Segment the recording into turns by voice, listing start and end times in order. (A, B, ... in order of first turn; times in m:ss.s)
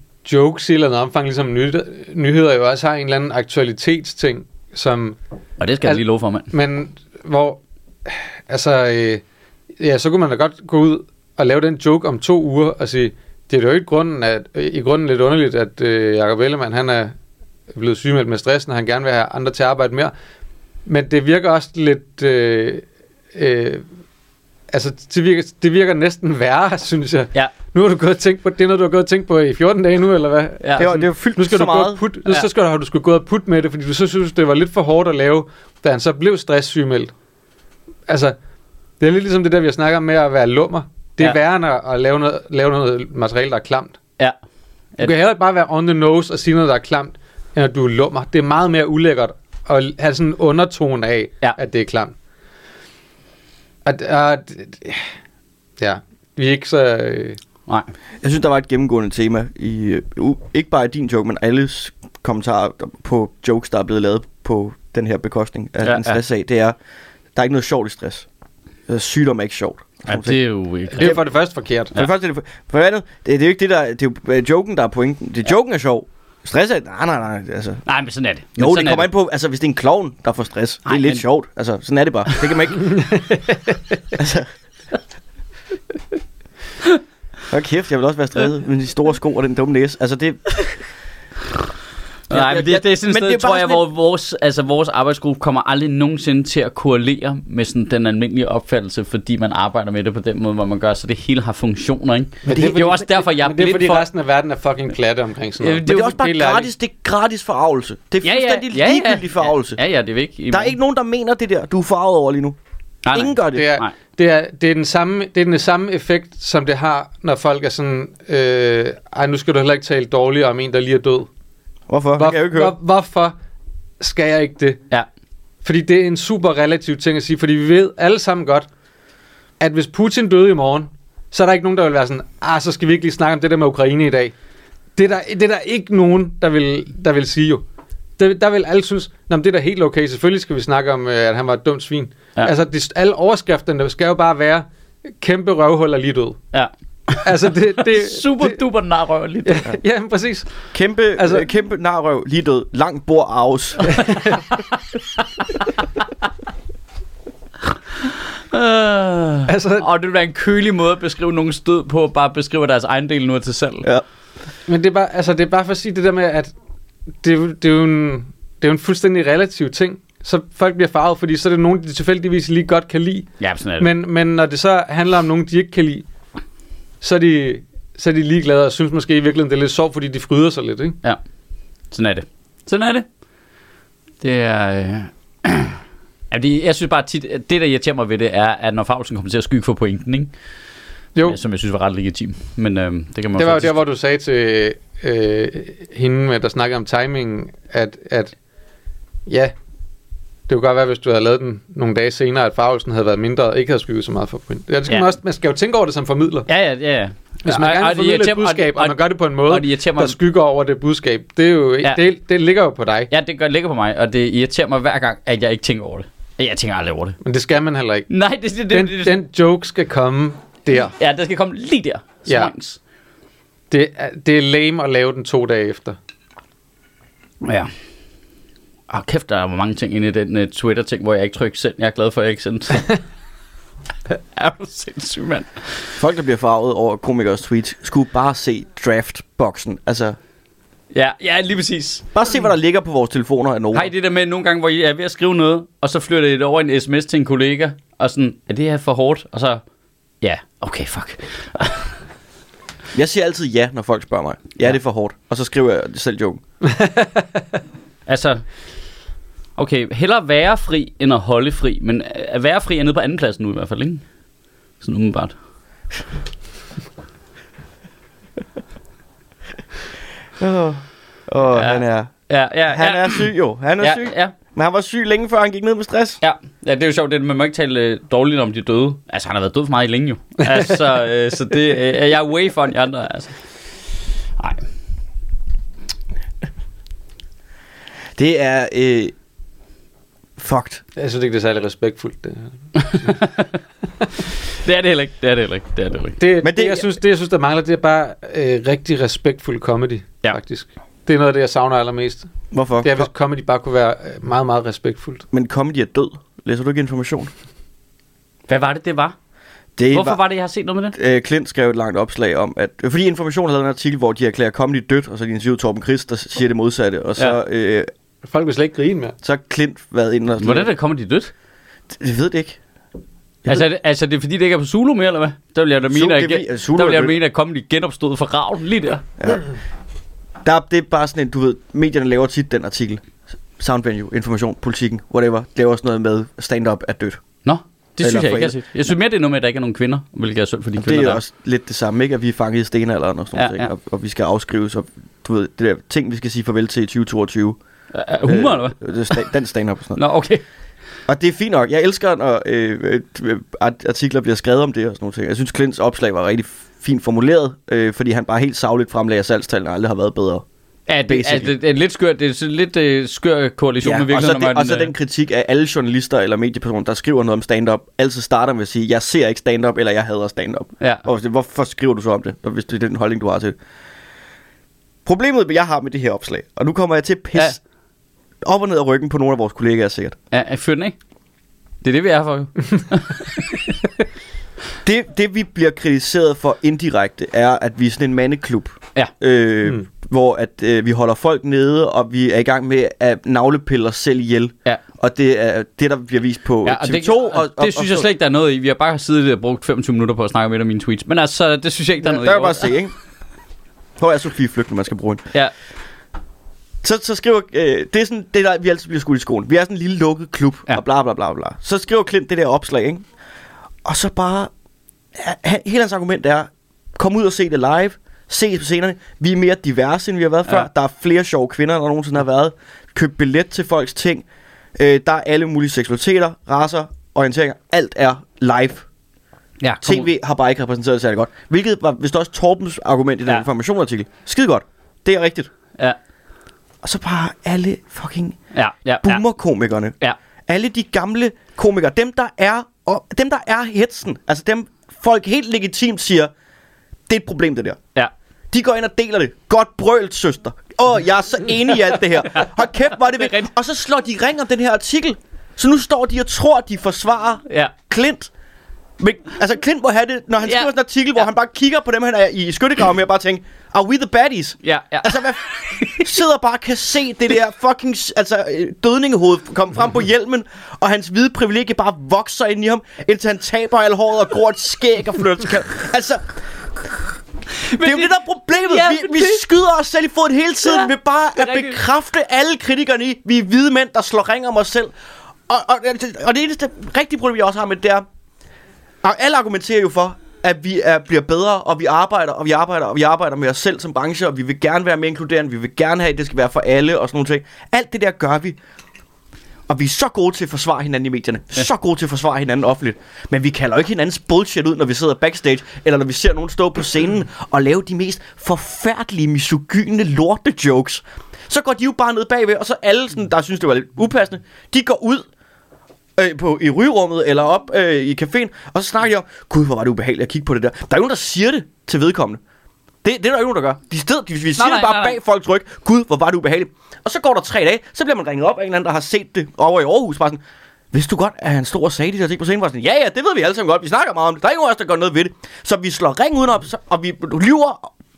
0:00.2-0:05.2 A
0:05.6-0:06.5 B
0:05.8-0:09.2 A
0:09.8-0:17.2 A
0:17.7-0:20.1 A
0:20.9-0:23.9 A
0:24.7-0:37.1 A
0:30.6-0:30.9 B
0:30.8-0:32.0 C
0:38.1-0:38.4 A
0:39.0-0:44.0 A
0:45.0-0:52.1 A
0:53.8-0:55.1 A
0:55.8-0:57.4 A
0:58.2-1:06.8 C
1:05.8-1:06.2 B
1:07.4-1:08.3 C
1:08.9-1:10.4 C
1:10.1-1:11.2 B
1:10.9-1:12.0 A
1:11.9-1:17.8 C
1:17.9-1:19.1 B
1:18.6-1:23.1 C
1:20.9-1:21.2 B
1:22.9-1:23.8 A
1:24.2-1:24.5 C
1:27.5-1:30.8 C
1:32.3-1:44.1 B
1:32.3-1:33.8 C
1:42.4-1:46.7 A
1:45.6-1:46.3 B
1:45.8-1:49.8 C
1:48.2-1:50.8 B
1:50.5-1:52.6 C
1:53.0-1:53.9 B
1:53.1-1:53.7 C
1:53.5-2:01.3 A
2:01.9-2:02.8 C
2:02.2-2:03.4 A
2:04.0-2:04.8 A
2:05.6-2:08.7 A
2:09.6-2:14.4 A
2:15.0-2:17.6 A
2:18.2-2:24.7 A
2:25.2-2:26.4 A
2:26.5-2:27.3 B
2:27.2-2:28.6 A
2:27.8-2:29.6 B
2:29.4-2:31.5 A
2:30.7-2:34.0 C
2:33.9-2:34.4 A
2:38.1-2:43.9 B
2:39.5-2:39.9 A
2:44.7-2:46.5 A
2:47.2-2:56.1 A
2:53.4-2:53.9 B
2:57.0-3:01.0 A
3:01.9-3:03.1 B
3:04.2-3:05.8 B
3:06.3-3:10.3 B
3:11.2-3:13.8 B
3:13.4-3:18.4 A
3:19.3-3:19.5 A
3:20.5-3:26.5 A
3:26.5-3:30.2 B
3:27.4-3:33.1 A
3:33.1-3:37.2 B
3:37.2-3:38.1 A
3:38.1-3:39.2 B
3:38.7-3:40.9 A
3:40.9-3:42.8 B
3:42.3-3:42.5 A
3:43.7-3:46.0 A
3:47.4-3:47.7 B
3:48.9-3:52.9 B
3:54.4-3:55.9 B
3:56.0-4:00.2 C
4:00.9-4:02.1 B
4:02.1-4:03.9 C
4:03.7-4:09.6 B
4:10.2-4:12.0 B
4:12.9-4:16.4 C
4:16.7-4:17.2 A
4:18.1-4:18.4 B
4:19.6-4:24.0 B
4:24.8-4:25.4 B
4:30.4-4:36.2 C
4:31.6-4:34.3 B
4:36.2-4:43.4 B
4:44.4-4:44.6 B
4:48.2-4:49.2 C
4:50.4-4:50.8 C
4:51.0-4:53.1 A
4:52.8-4:53.5 B
4:54.6-4:56.2 B
4:56.2-5:05.2 A
4:56.4-4:56.9 C
5:02.5-5:03.1 C
5:05.3-5:07.3 C
5:08.5-5:09.2 B
5:09.8-5:10.2 C
5:09.9-5:11.0 B
5:11.0-5:17.9 C
5:18.2-5:19.2 A
5:19.2-5:20.7 C
5:20.4-5:21.3 B
5:21.9-5:22.6 C
5:23.5-5:29.0 B
5:25.9-5:27.2 C
5:29.2-5:29.5 C
5:30.4-5:33.0 C
5:33.6-5:37.2 C
5:37.4-5:41.2 B
5:38.0-5:38.6 C
5:40.8-5:47.6 C
5:43.4-5:43.7 B
5:47.9-5:49.2 B
5:48.2-5:50.0 C
5:50.0-5:50.4 B
5:51.1-6:00.4 C
6:00.9-6:04.9 B
6:01.1-6:01.5 C
6:03.8-6:13.6 C
6:10.8-6:11.0 B
6:15.0-6:17.6 C
6:18.4-6:20.2 C
6:20.3-6:21.0 B
6:21.8-6:23.7 B
6:24.8-6:38.1 C
6:36.6-6:42.7 B
6:42.0-6:42.9 C
6:44.0-6:45.2 C
6:46.8-6:53.0 C
6:53.8-6:54.5 C
6:55.1-7:04.2 C
7:04.8-7:08.8 C
7:09.6-7:10.1 B
7:09.8-7:15.5 C
7:16.8-7:18.4 C
7:18.5-7:19.2 B
7:19.0-7:20.0 C
7:20.5-7:26.3 C
7:27.1-7:27.8 C
7:28.5-7:38.3 C
7:33.2-7:33.5 B
7:37.5-7:37.7 B
7:39.0-7:56.3 C
7:44.6-7:46.1 B
7:57.5-7:59.4 B
7:57.8-8:04.9 C
8:00.6-8:01.8 B
8:05.5-8:08.0 C
8:09.0-8:18.6 C
8:19.7-8:35.3 C
8:36.2-8:42.4 C
8:43.0-8:50.4 C
8:44.6-8:45.2 B
8:50.9-8:57.9 C